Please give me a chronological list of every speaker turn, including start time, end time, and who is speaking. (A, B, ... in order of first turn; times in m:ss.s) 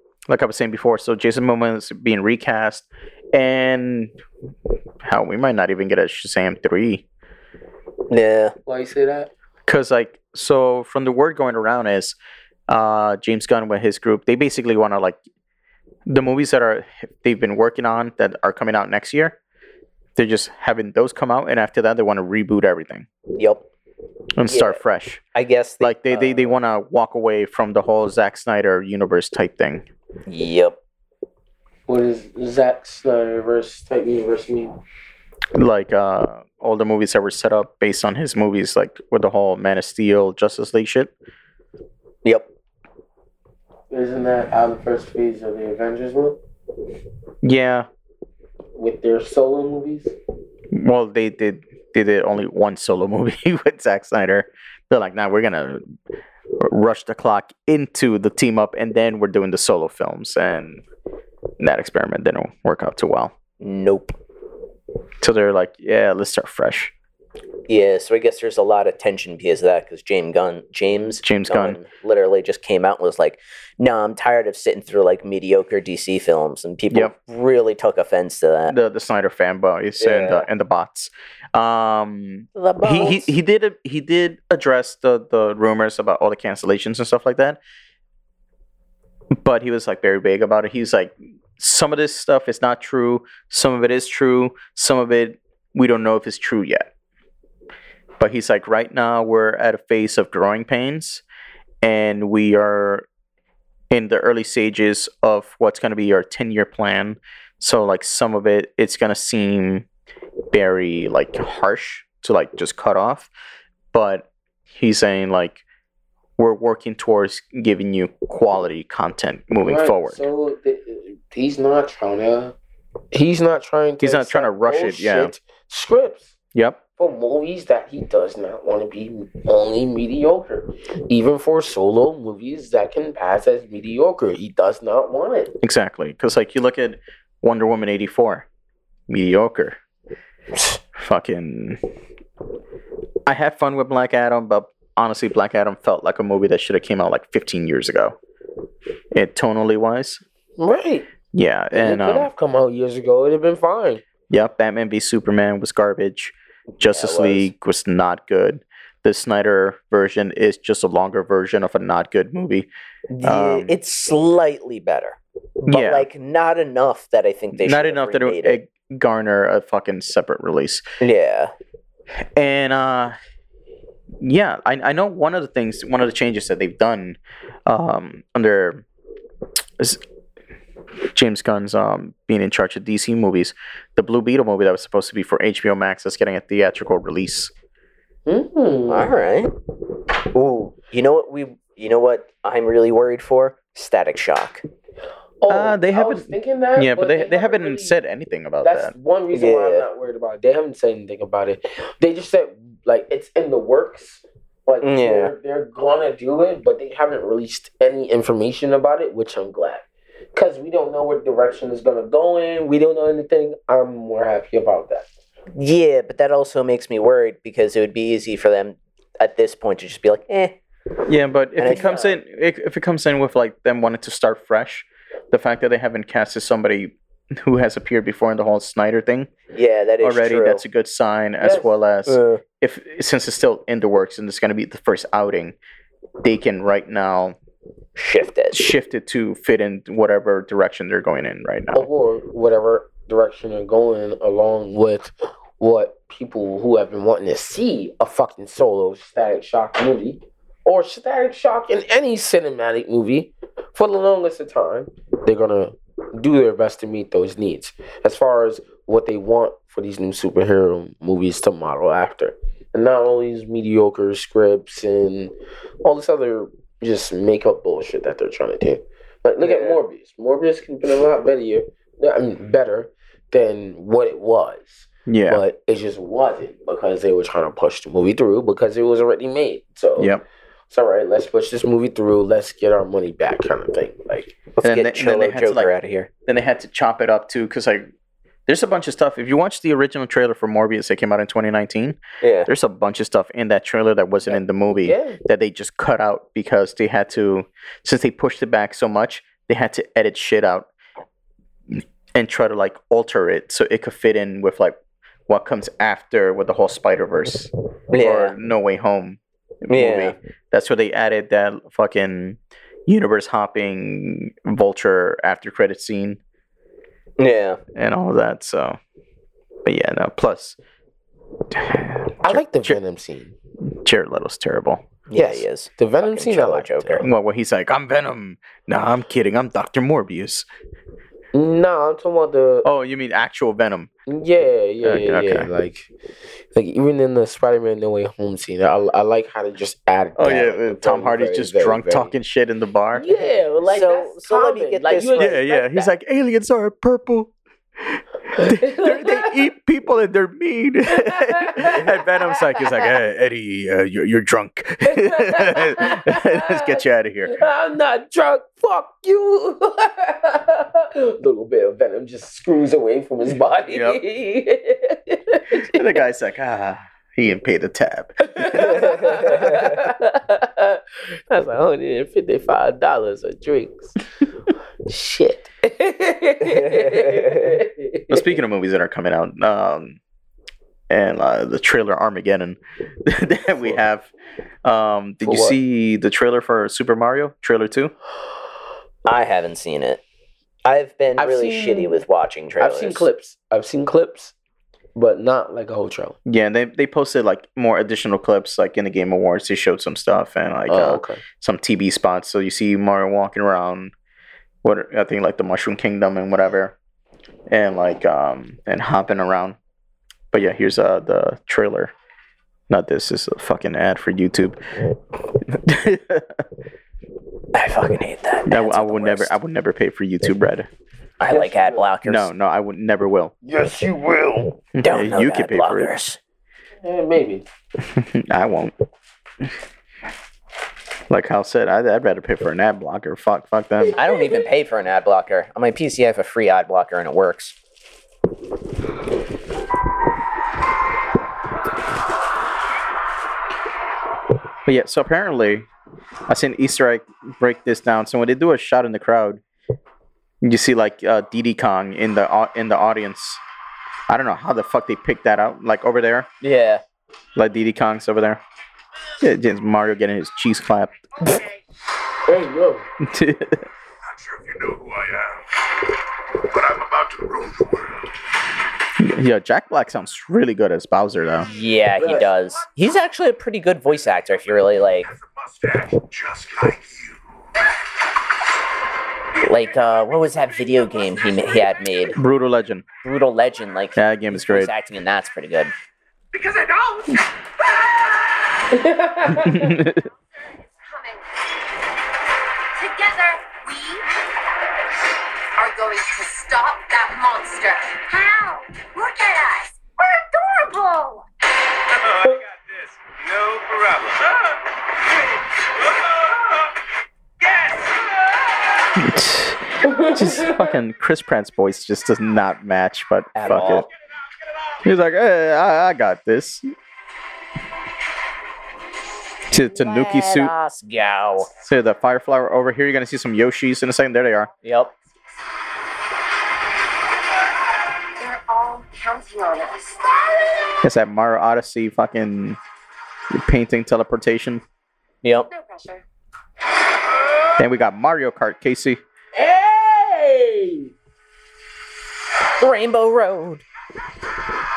0:00.3-0:04.1 A
0:05.0-0:07.0 A
0:08.1-0:08.6 B
0:08.7-0:09.3 C
0:09.7-0:12.2 A
0:12.7-0:15.2 A
0:16.1-0:19.4 A
0:20.2-0:23.1 A
0:23.4-0:23.7 B
0:24.4-0:25.2 A
0:24.5-0:24.8 B
0:25.3-0:26.5 B
0:25.8-0:29.9 A
0:30.3-0:30.8 B
0:31.9-0:34.8 C
0:35.6-0:41.1 A
0:42.2-0:42.5 B
0:43.9-0:46.4 C
0:47.4-0:47.9 A
0:48.8-0:50.2 C
0:50.7-0:55.8 A
0:56.6-1:00.8 A
1:01.6-1:03.4 A
1:03.6-1:04.2 B
1:05.2-1:06.9 A
1:07.7-1:18.8 B
1:11.2-1:11.8 A
1:18.7-1:27.6 A
1:20.0-1:20.5 B
1:22.6-1:23.3 B
1:29.4-1:36.9 A
1:38.2-1:41.2 A
1:41.8-1:43.1 A
1:43.9-1:49.9 A
1:50.5-1:53.3 A
1:53.9-1:55.6 A
1:56.4-2:00.2 A
1:59.6-2:02.6 C
2:03.1-2:06.4 C
2:04.0-2:05.3 A
2:06.6-2:06.8 A
2:07.0-2:15.5 C
2:15.6-2:18.5 A
2:19.1-2:19.8 A
2:21.0-2:21.8 A
2:23.3-2:28.2 A
2:29.1-2:30.2 A
2:30.6-2:31.1 C
2:31.3-2:32.3 A
2:31.7-2:34.0 C
2:34.3-2:42.7 A
2:36.8-2:37.5 B
2:43.1-2:48.6 B
2:43.2-2:43.7 A
2:45.6-2:46.1 A
2:47.6-2:50.8 A
2:51.0-2:51.5 B
2:52.4-2:53.2 A
2:54.2-2:58.8 A
3:01.1-3:07.5 A
3:08.3-3:09.1 C
3:08.9-3:09.5 B
3:10.3-3:14.6 B
3:15.4-3:18.0 C
3:15.5-3:18.9 A
3:18.6-3:35.1 C
3:19.3-3:19.9 B
3:24.8-3:25.3 B
3:35.6-3:40.6 B
3:41.1-3:49.3 A
3:41.6-3:41.9 B
3:41.7-3:42.2 C
3:49.5-3:50.6 B
3:50.0-3:55.6 A
3:51.4-3:51.7 C
3:52.1-3:52.4 B
3:56.2-3:57.4 A
3:58.0-3:58.6 B
3:58.5-4:01.9 A
4:01.7-4:40.2 C
4:29.4-4:29.8 B
4:35.1-4:35.4 A
4:40.0-4:40.2 A
4:40.7-4:44.4 C
4:44.6-4:46.1 B
4:44.6-4:45.7 A
4:46.3-4:47.9 A
4:48.5-5:00.7 A
4:52.2-4:52.5 B
4:54.2-4:55.2 C
5:01.7-5:04.8 A
5:05.3-5:16.2 A
5:07.9-5:08.4 B
5:09.7-5:10.2 B
5:17.2-5:17.6 B
5:17.8-5:18.8 A
5:19.6-5:20.6 A
5:21.5-5:22.8 A
5:22.2-5:23.3 C
5:23.8-5:24.8 A
5:25.1-5:27.0 B
5:25.8-5:27.1 C
5:27.0-5:30.5 A
5:31.3-5:32.7 C
5:32.6-5:33.9 A
5:34.1-5:35.9 C
5:34.8-5:35.5 A
5:36.5-5:42.1 C
5:40.2-5:43.1 A
5:43.0-5:45.6 C
5:43.6-5:45.8 B
5:45.2-5:57.3 A
5:48.4-5:49.4 C
5:51.0-5:52.7 C
5:54.9-5:56.8 C
5:57.3-6:05.9 C
6:03.7-6:04.0 A
6:05.7-6:09.6 A
6:08.3-6:14.0 C
6:14.9-6:18.3 C
6:16.5-6:17.6 B
6:18.1-6:20.0 A
6:20.9-6:24.1 A
6:24.6-6:27.9 A
6:25.2-6:25.6 C
6:29.0-6:30.0 B
6:30.6-6:33.1 B
6:31.2-6:32.0 C
6:32.6-6:34.3 C
6:35.0-6:36.2 C
6:36.3-6:43.9 A
6:40.7-6:41.2 C
6:44.6-6:46.8 A
6:47.5-6:49.6 A
6:50.3-6:51.9 A
6:52.7-6:54.6 A
6:55.4-6:56.4 A
6:57.5-6:59.3 B
6:58.5-7:00.7 A
7:01.2-7:02.3 B
7:01.3-7:01.9 C
7:02.0-7:03.3 A
7:03.4-7:04.6 C
7:04.8-7:05.9 A
7:04.8-7:06.2 B
7:06.8-7:07.5 C
7:07.8-7:08.7 A
7:11.1-7:14.0 A
7:13.8-7:14.5 C
7:14.0-7:17.6 B
7:24.7-7:25.7 A
7:26.3-7:29.4 A
7:30.4-7:33.4 A
7:34.1-7:36.3 A
7:36.4-7:36.8 B
7:37.4-7:38.4 A
7:39.2-7:41.0 A
7:42.3-7:42.9 C
7:43.0-7:43.7 A
7:44.0-7:45.4 D
7:46.4-7:48.1 D
7:49.0-7:51.5 A
7:51.5-7:55.1 B
7:52.0-7:52.3 C
7:54.2-7:57.2 D
7:59.4-8:02.2 B
8:02.2-8:02.8 A
8:03.0-8:05.7 B
8:04.0-8:04.7 A
8:06.4-8:07.0 D
8:08.7-8:09.8 C
8:09.3-8:10.0 A
8:09.9-8:10.2 E
8:10.7-8:11.3 E
8:12.8-8:14.0 E
8:15.6-8:21.2 E
8:21.9-8:24.5 D
8:25.8-8:26.4 D
8:27.4-8:28.0 D
8:29.0-8:33.9 A
8:29.8-8:30.6 C
8:33.4-8:33.9 B
8:34.8-8:36.6 A
8:39.5-8:40.5 A
8:39.7-8:41.5 B
8:41.6-8:44.5 A
8:44.6-8:44.9 B
8:48.2-8:50.1 E
8:50.8-8:52.6 A
8:53.3-8:54.6 A
8:55.2-8:55.5 B
8:55.5-8:56.0 E
8:57.6-8:59.0 A
8:59.4-9:00.9 C
9:02.6-9:03.6 B